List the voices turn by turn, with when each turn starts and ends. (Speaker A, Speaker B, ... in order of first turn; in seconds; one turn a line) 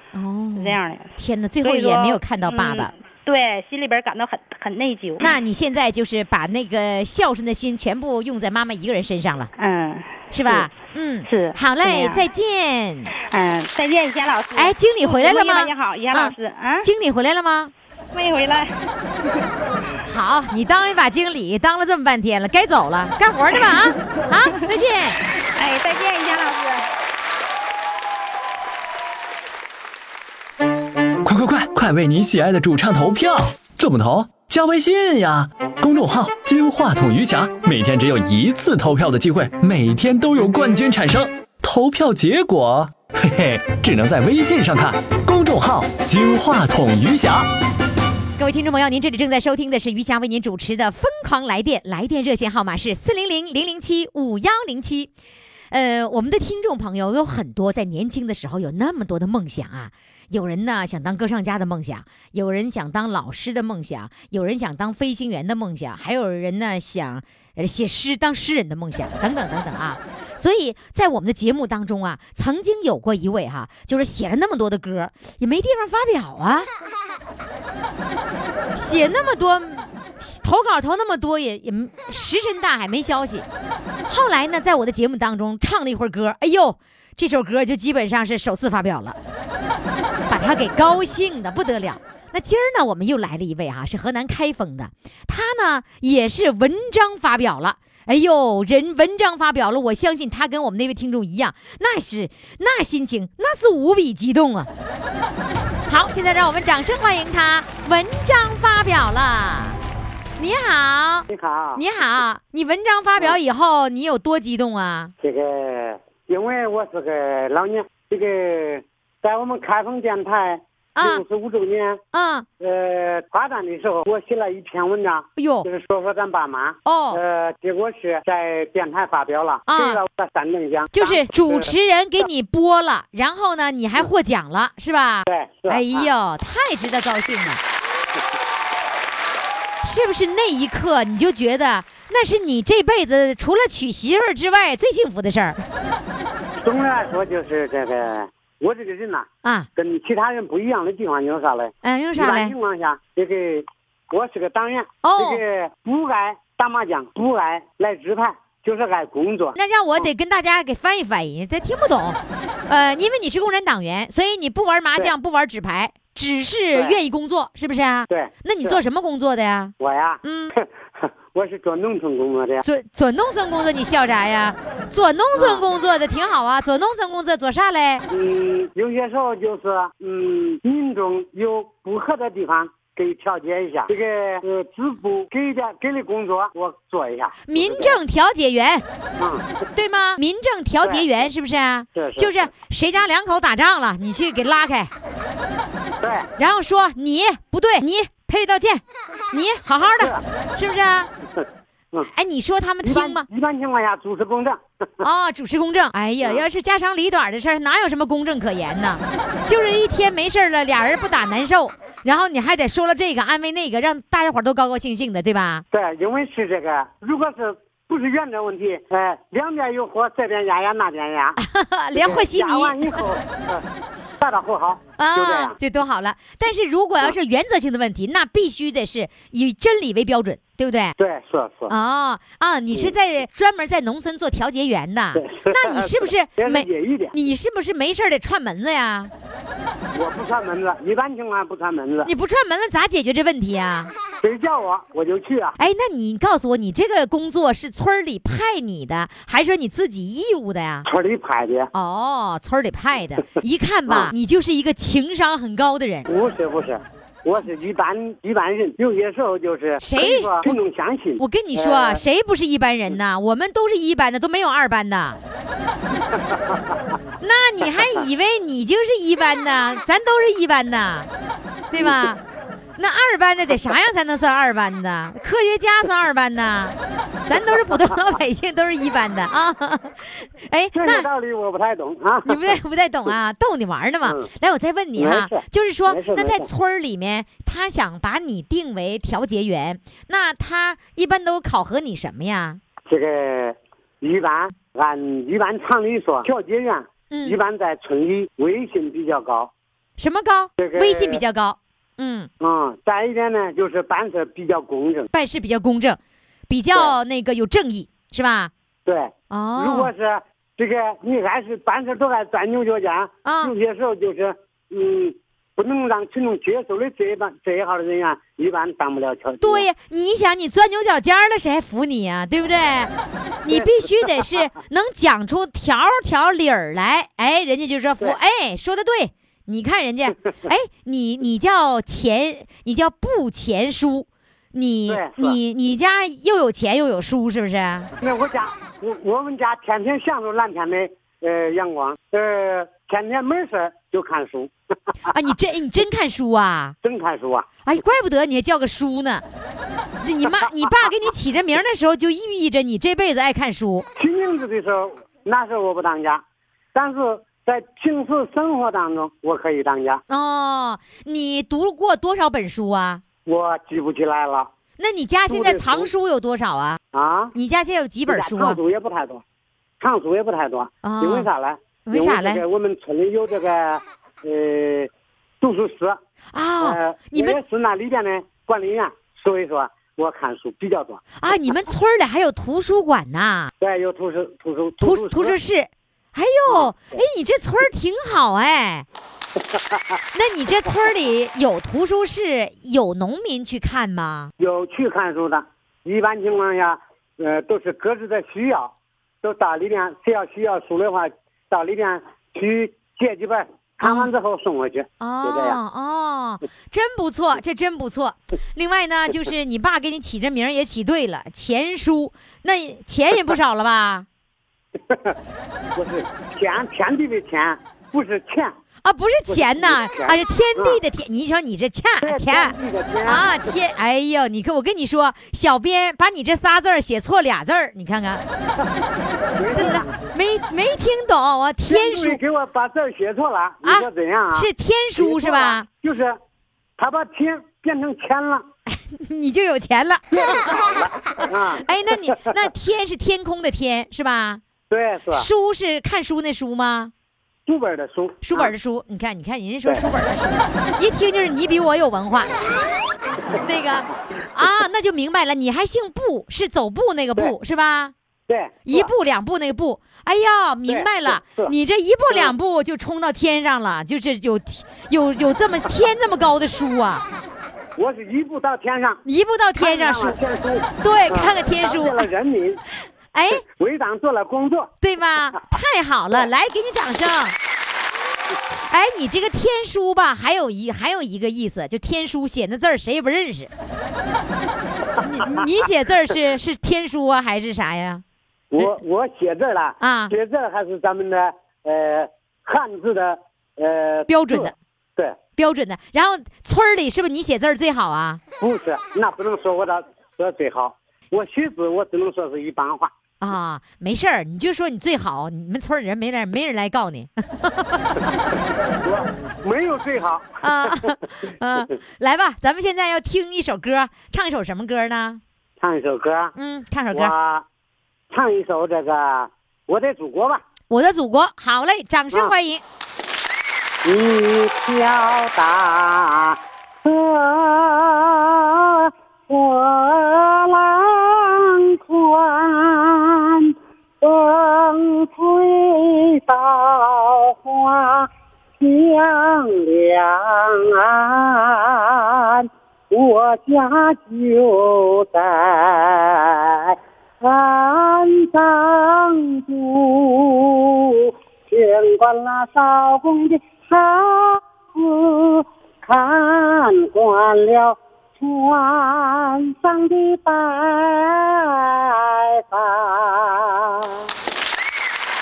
Speaker A: 0.1-2.9
Speaker B: 0.6-1.1
Speaker B: 1.6-5.4
Speaker A: 5.2-9.5
Speaker B: 9.6-10.7
Speaker A: 10.3-13.1
Speaker B: 11.3-12.3
Speaker B: 13.2-16.9
Speaker A: 14.6-17.7
Speaker B: 18.1-18.8
Speaker A: 20.1-25.2
Speaker B: 23.5-24.7
Speaker B: 25.3-26.9
Speaker C: 31.2-47.5
Speaker A: 48.4-55.1
Speaker A: 55.7-76.7
Speaker A: 78.8-83.5
Speaker A: 84.1-89.2
Speaker A: 90.3-104.7
Speaker A: 105.9-109.8
Speaker A: 110.4-115.1
Speaker D: 111.3-111.8
Speaker D: 115.2-122.0
Speaker A: 121.0-121.2
Speaker A: 122.1-122.5
Speaker D: 122.6-131.7
Speaker A: 125.4-125.7
Speaker A: 126.9-127.2
Speaker A: 129.7-130.0
Speaker A: 130.9-137.6
Speaker D: 135.3-136.1
Speaker A: 139.8-145.7
Speaker D: 146.6-160.1
Speaker A: 151.8-152.6
Speaker A: 155.0-155.4
Speaker A: 159.6-170.5
Speaker D: 168.1-168.8
Speaker D: 169.8-172.6
Speaker A: 172.6-178.1
Speaker D: 175.3-175.7
Speaker D: 178.1-188.0
Speaker A: 187.5-188.8
Speaker D: 189.2-189.5
Speaker A: 189.8-194.9
Speaker D: 190.8-191.1
Speaker D: 191.9-192.4
Speaker D: 196.0-196.3
Speaker A: 196.4-201.1
Speaker A: 202.1-203.3
Speaker D: 202.8-204.6
Speaker A: 205.0-215.7
Speaker D: 206.2-206.5
Speaker D: 215.7-221.4
Speaker A: 221.4-223.0
Speaker D: 221.9-223.6
Speaker D: 224.2-225.6
Speaker A: 225.0-230.9
Speaker D: 231.0-231.7
Speaker A: 231.7-239.1
Speaker D: 235.1-237.1
Speaker D: 239.9-242.1
Speaker A: 242.1-243.9
Speaker D: 244.2-245.6
Speaker A: 245.6-250.9
Speaker D: 250.9-251.7
Speaker A: 251.7-256.1
Speaker D: 253.9-254.1
Speaker D: 256.1-262.0
Speaker A: 259.8-260.6
Speaker A: 261.2-265.2
Speaker D: 266.1-266.7
Speaker A: 267.2-271.1
Speaker D: 267.7-268.0
Speaker A: 271.7-272.2
Speaker D: 271.7-272.2
Speaker A: 272.8-276.8
Speaker A: 277.3-281.1
Speaker D: 280.7-282.5
Speaker A: 282.3-292.6
Speaker D: 285.0-286.5
Speaker D: 292.9-299.5
Speaker A: 297.1-297.4
Speaker A: 300.0-302.3
Speaker D: 300.6-301.2
Speaker D: 302.4-305.1
Speaker A: 305.1-308.5
Speaker D: 308.9-319.7
Speaker A: 309.3-309.9
Speaker A: 313.2-313.5
Speaker A: 319.4-322.9
Speaker A: 323.4-337.9
Speaker D: 334.9-335.4
Speaker D: 338.0-344.5
Speaker A: 345.1-346.8
Speaker D: 346.8-347.5
Speaker A: 347.6-349.2
Speaker A: 350.0-353.9
Speaker D: 354.0-356.2
Speaker D: 356.7-360.0
Speaker A: 360.1-363.0
Speaker D: 363.3-364.5
Speaker A: 364.8-366.8
Speaker D: 365.3-365.9
Speaker D: 366.9-367.3
Speaker A: 367.3-368.6
Speaker D: 368.1-369.2
Speaker D: 369.8-376.0
Speaker A: 370.8-371.3
Speaker A: 371.8-372.4
Speaker A: 376.3-377.4
Speaker D: 376.6-381.0
Speaker A: 381.2-383.5
Speaker D: 383.6-385.4
Speaker A: 384.8-388.9
Speaker D: 386.5-387.0
Speaker D: 389.4-390.0
Speaker A: 390.1-394.3
Speaker D: 394.4-405.6
Speaker A: 403.8-404.1
Speaker A: 405.0-414.1
Speaker D: 414.9-415.2
Speaker D: 415.8-418.6
Speaker A: 418.8-428.2
Speaker D: 419.3-420.8
Speaker D: 422.0-423.3
Speaker D: 429.4-430.0
Speaker A: 429.5-432.2
Speaker D: 431.7-436.2
Speaker A: 433.6-435.7
Speaker D: 436.8-438.4
Speaker A: 438.7-440.6
Speaker D: 440.1-442.4
Speaker A: 441.2-444.4
Speaker D: 444.7-445.3
Speaker A: 445.1-446.9
Speaker D: 447.5-448.5
Speaker A: 448.2-452.3
Speaker A: 453.4-457.9
Speaker D: 458.3-458.9
Speaker A: 458.7-467.1
Speaker D: 460.7-461.5
Speaker D: 467.8-469.0
Speaker A: 469.1-470.2
Speaker D: 469.6-472.6
Speaker A: 470.8-472.1
Speaker A: 473.1-473.4
Speaker D: 473.4-474.7
Speaker A: 474.8-477.4
Speaker A: 478.7-483.5
Speaker A: 485.0-488.0
Speaker D: 488.5-495.2
Speaker A: 489.8-490.1
Speaker A: 494.1-494.5
Speaker A: 495.4-498.2
Speaker D: 498.4-502.9
Speaker A: 503.2-508.2
Speaker D: 508.8-510.9
Speaker A: 510.4-515.2
Speaker D: 515.6-516.3
Speaker A: 516.4-517.1
Speaker D: 516.9-517.5
Speaker D: 518.1-520.4
Speaker A: 520.7-522.6
Speaker D: 523.9-564.0